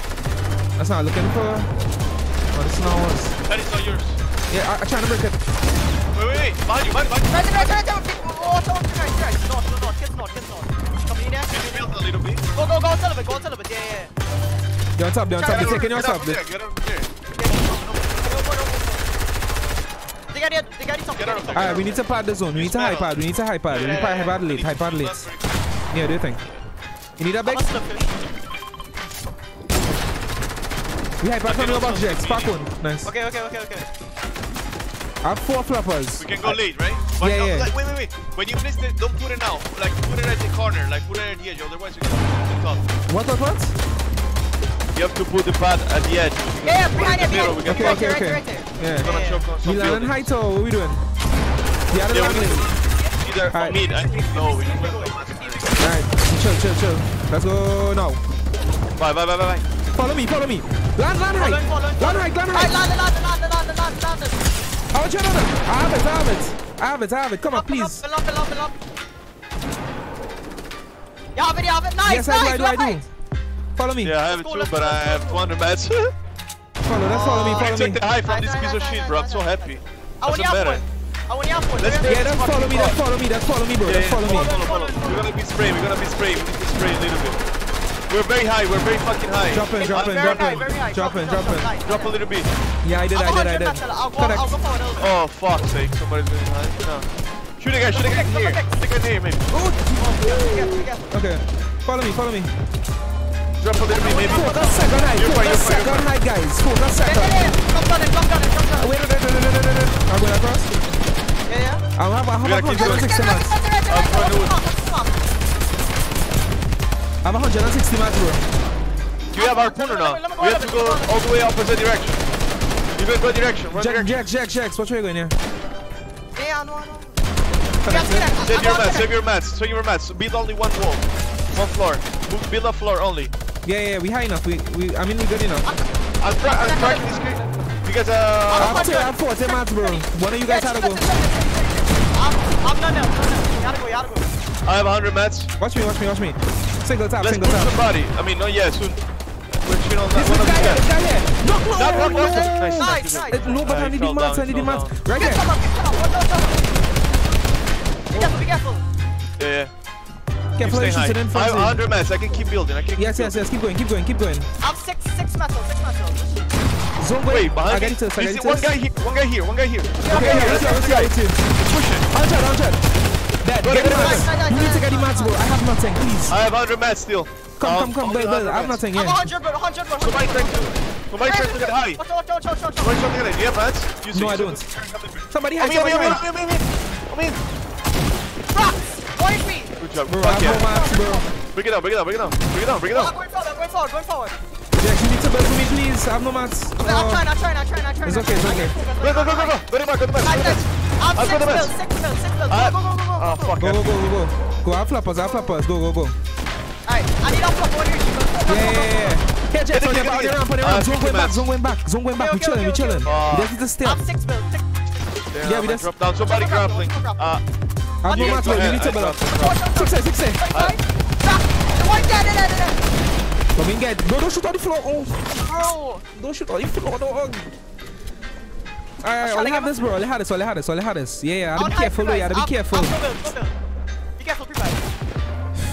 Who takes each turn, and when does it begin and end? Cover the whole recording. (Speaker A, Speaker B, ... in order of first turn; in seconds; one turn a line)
Speaker A: 0.8-1.7
Speaker A: 2.5-3.4
Speaker B: 3.4-4.2
Speaker A: 4.5-5.4
Speaker B: 6.1-7.8
Speaker C: 7.3-11.6
Speaker B: 11.5-12.4
Speaker C: 12.5-14.1
Speaker A: 15.0-16.4
Speaker B: 15.3-18.4
Speaker C: 17.4-19.1
Speaker C: 20.3-22.0
Speaker B: 21.2-25.6
Speaker A: 21.5-25.3
Speaker A: 25.9-26.4
Speaker A: 27.2-27.6
Speaker C: 27.4-28.1
Speaker A: 31.2-33.1
Speaker B: 31.4-32.6
Speaker C: 33.0-33.9
Speaker A: 35.2-36.6
Speaker B: 36.2-42.9
Speaker A: 37.2-37.7
Speaker A: 43.1-43.8
Speaker B: 45.0-48.2
Speaker C: 46.6-49.5
Speaker A: 47.6-51.0
Speaker B: 49.0-50.4
Speaker A: 51.9-52.8
Speaker B: 52.1-55.9
Speaker A: 53.5-53.8
Speaker C: 53.7-55.8
Speaker A: 55.8-58.2
Speaker B: 59.0-59.7
Speaker A: 59.9-62.8
Speaker C: 61.3-64.4
Speaker A: 64.9-68.0
Speaker C: 67.5-68.8
Speaker C: 71.3-73.0
Speaker A: 72.0-73.1
Speaker A: 73.8-74.1
Speaker B: 74.0-76.1
Speaker C: 74.3-75.4
Speaker A: 76.8-78.0
Speaker C: 77.0-82.2
Speaker B: 77.2-80.8
Speaker B: 81.8-83.0
Speaker A: 82.0-84.6
Speaker B: 83.8-87.4
Speaker C: 84.2-85.3
Speaker B: 88.1-90.8
Speaker A: 89.5-91.7
Speaker C: 89.8-92.1
Speaker B: 91.8-92.5
Speaker A: 92.8-94.6
Speaker C: 93.1-95.2
Speaker B: 95.0-99.5
Speaker C: 97.9-98.9
Speaker A: 99.5-102.5
Speaker C: 99.9-101.1
Speaker B: 103.6-106.1
Speaker C: 103.9-105.2
Speaker A: 104.0-107.5
Speaker C: 107.0-108.9
Speaker A: 108.8-110.7
Speaker C: 111.5-111.8
Speaker A: 112.0-113.5
Speaker B: 112.4-113.2
Speaker C: 112.7-115.2
Speaker B: 113.9-114.6
Speaker A: 117.2-118.5
Speaker C: 119.3-121.1
Speaker B: 119.3-122.2
Speaker B: 123.0-124.2
Speaker A: 123.7-125.4
Speaker C: 126.3-127.2
Speaker A: 127.8-128.3
Speaker C: 127.8-129.1
Speaker B: 128.4-133.3
Speaker A: 133.7-135.7
Speaker C: 135.6-137.2
Speaker B: 136.2-138.9
Speaker C: 138.5-144.3
Speaker A: 138.5-141.0
Speaker B: 144.6-145.5
Speaker A: 145.6-147.8
Speaker B: 147.2-149.0
Speaker B: 149.5-150.9
Speaker A: 150.2-155.5
Speaker C: 151.5-153.7
Speaker B: 151.7-155.0
Speaker C: 155.1-156.7
Speaker C: 158.1-158.8
Speaker A: 158.1-158.4
Speaker B: 159.4-159.7
Speaker A: 160.6-161.8
Speaker B: 160.6-163.4
Speaker A: 163.0-164.5
Speaker C: 164.6-166.5
Speaker A: 167.0-168.7
Speaker B: 167.3-172.1
Speaker C: 170.0-170.8
Speaker A: 170.1-171.4
Speaker A: 172.1-172.8
Speaker A: 173.4-176.4
Speaker B: 173.6-174.3
Speaker C: 173.7-175.4
Speaker B: 176.3-178.8
Speaker A: 177.6-179.3
Speaker C: 178.9-183.0
Speaker B: 180.0-182.0
Speaker B: 182.8-187.4
Speaker A: 184.1-184.6
Speaker A: 185.3-186.2
Speaker C: 188.5-189.7
Speaker B: 189.8-190.7
Speaker A: 190.1-191.2
Speaker C: 190.4-191.3
Speaker B: 191.5-193.2
Speaker C: 192.9-194.3
Speaker A: 194.8-197.3
Speaker C: 196.8-199.6
Speaker A: 198.0-198.8
Speaker B: 199.0-201.8
Speaker C: 200.2-203.6
Speaker B: 202.5-204.2
Speaker A: 203.6-206.2
Speaker C: 205.2-205.6
Speaker C: 206.8-209.2
Speaker A: 208.5-214.0
Speaker B: 209.7-211.5
Speaker C: 212.2-214.9
Speaker B: 213.0-213.5
Speaker B: 215.3-217.4
Speaker A: 215.4-215.9
Speaker C: 216.2-217.4
Speaker A: 218.0-220.5
Speaker B: 218.1-219.7
Speaker C: 218.1-218.8
Speaker C: 219.3-222.8
Speaker B: 220.5-220.8
Speaker A: 223.6-225.3
Speaker C: 225.4-226.1
Speaker A: 226.1-227.5
Speaker A: 229.0-233.2
Speaker C: 229.2-229.9
Speaker C: 231.6-233.6
Speaker C: 234.2-234.8